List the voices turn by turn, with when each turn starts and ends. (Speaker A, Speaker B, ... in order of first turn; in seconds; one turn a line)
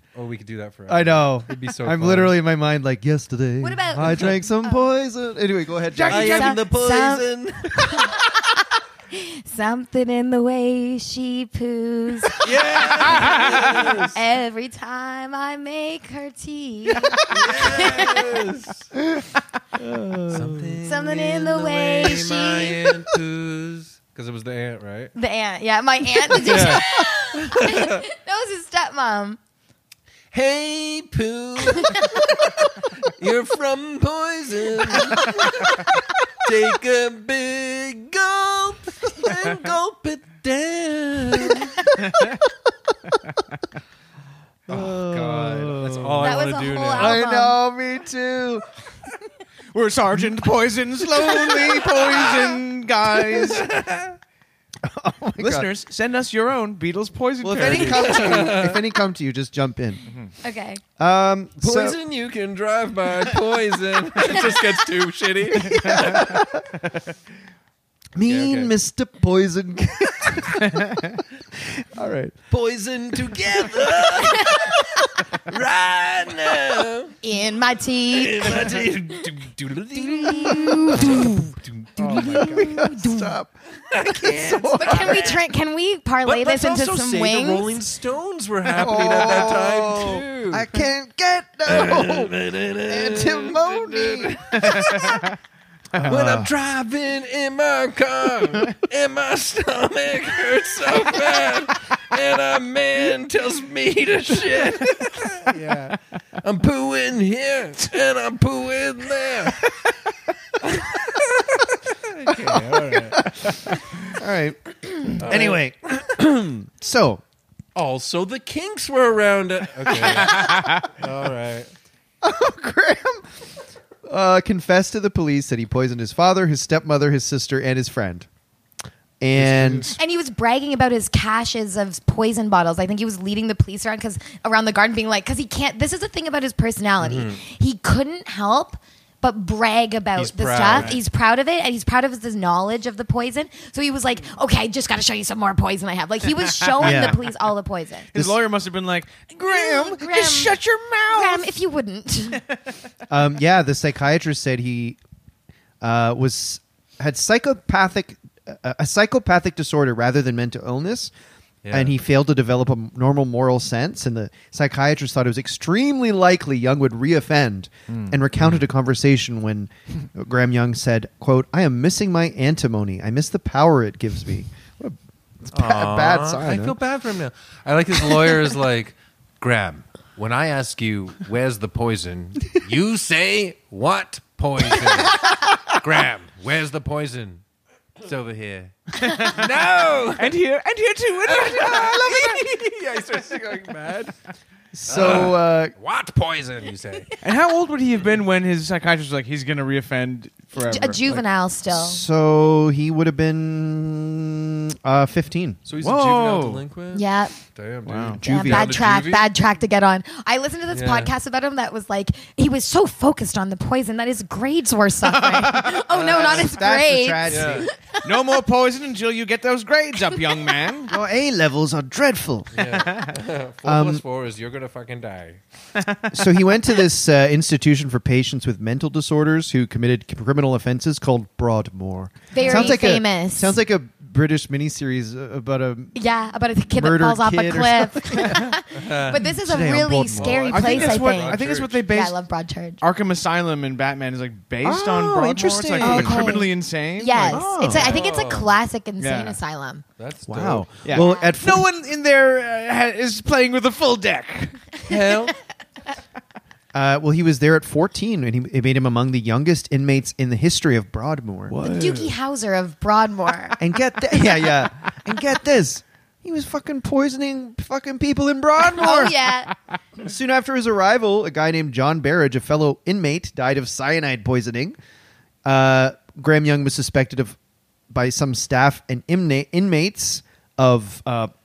Speaker A: 0.1-2.4
Speaker B: 0.9-6.6
Speaker C: 3.6-4.8
Speaker A: 4.0-4.3
Speaker D: 5.9-6.4
Speaker C: 6.1-12.5
Speaker A: 6.1-8.2
Speaker A: 12.4-14.2
Speaker C: 14.1-18.3
Speaker A: 17.1-18.9
Speaker B: 19.8-20.8
Speaker A: 20.3-25.1
Speaker C: 20.8-22.9
Speaker C: 25.1-29.4
Speaker A: 26.3-28.0
Speaker A: 30.3-41.9
Speaker C: 31.7-32.3
Speaker D: 42.1-42.4
Speaker B: 44.7-46.4
Speaker A: 44.7-47.2
Speaker C: 46.2-47.6
Speaker B: 47.0-48.7
Speaker D: 49.7-53.7
Speaker B: 51.2-52.4
Speaker A: 52.0-52.4
Speaker B: 53.0-53.6
Speaker A: 53.4-54.2
Speaker B: 54.8-55.7
Speaker D: 55.4-58.3
Speaker B: 57.4-60.0
Speaker A: 57.5-58.8
Speaker C: 60.4-60.8
Speaker B: 61.0-62.0
Speaker A: 61.6-66.4
Speaker B: 65.7-66.7
Speaker B: 68.2-72.4
Speaker A: 68.2-68.7
Speaker A: 72.5-77.2
Speaker C: 74.3-74.7
Speaker C: 77.2-78.7
Speaker A: 78.1-82.9
Speaker C: 80.1-81.3
Speaker B: 80.4-81.4
Speaker B: 82.0-85.4
Speaker C: 82.2-83.3
Speaker A: 83.9-85.4
Speaker C: 84.7-87.8
Speaker A: 86.2-90.7
Speaker B: 88.7-92.3
Speaker A: 91.7-95.3
Speaker B: 92.8-95.0
Speaker D: 94.7-95.2
Speaker B: 95.9-96.5
Speaker A: 96.0-109.7
Speaker A: 110.7-113.3
Speaker B: 112.3-117.2
Speaker A: 115.2-115.6
Speaker A: 117.8-121.7
Speaker B: 122.2-123.2
Speaker B: 124.1-128.3
Speaker B: 129.2-130.0
Speaker A: 129.3-129.9
Speaker C: 129.9-148.1
Speaker A: 137.0-137.4
Speaker A: 140.2-140.9
Speaker D: 140.7-141.0
Speaker D: 146.7-147.2
Speaker B: 146.8-147.2
Speaker D: 148.1-151.5
Speaker C: 149.4-150.6
Speaker C: 151.1-152.4
Speaker B: 153.1-155.0
Speaker B: 155.8-161.1
Speaker A: 161.6-161.9
Speaker B: 161.7-176.8
Speaker D: 167.9-168.2
Speaker A: 168.4-168.6
Speaker A: 175.5-187.4
Speaker A: 188.0-190.4
Speaker D: 189.0-189.4
Speaker D: 190.2-192.4
Speaker A: 191.2-194.1
Speaker B: 194.7-195.7
Speaker A: 194.9-197.1
Speaker D: 197.2-201.2
Speaker C: 200.6-202.0
Speaker B: 201.7-205.6
Speaker A: 205.7-209.3
Speaker D: 205.8-206.6
Speaker C: 206.9-207.3
Speaker D: 207.9-208.2
Speaker B: 208.2-208.8
Speaker C: 208.2-217.9
Speaker A: 210.7-211.1
Speaker D: 215.2-215.8
Speaker B: 215.9-217.7
Speaker A: 216.0-216.5
Speaker A: 217.3-217.7
Speaker D: 218.0-220.9
Speaker B: 220.9-222.7
Speaker A: 222.5-225.4
Speaker D: 222.7-223.1
Speaker B: 223.7-224.0
Speaker B: 226.1-236.0
Speaker C: 232.3-233.6
Speaker D: 232.4-232.8
Speaker C: 235.9-242.8
Speaker B: 236.7-238.6
Speaker A: 238.7-239.4
Speaker B: 239.4-241.1
Speaker A: 240.1-241.9
Speaker D: 240.5-242.2
Speaker D: 242.8-247.8
Speaker B: 244.6-246.5
Speaker C: 245.8-249.8
Speaker B: 247.3-248.0
Speaker A: 247.7-248.6
Speaker D: 249.0-249.4
Speaker A: 250.0-250.7
Speaker B: 250.3-251.7
Speaker D: 250.8-254.7
Speaker C: 250.9-251.3
Speaker A: 254.9-255.3
Speaker B: 256.7-261.6
Speaker D: 261.5-262.1
Speaker C: 261.6-263.6
Speaker B: 263.6-269.2
Speaker C: 268.6-269.6
Speaker B: 270.0-274.8
Speaker B: 275.4-277.4
Speaker B: 277.9-281.3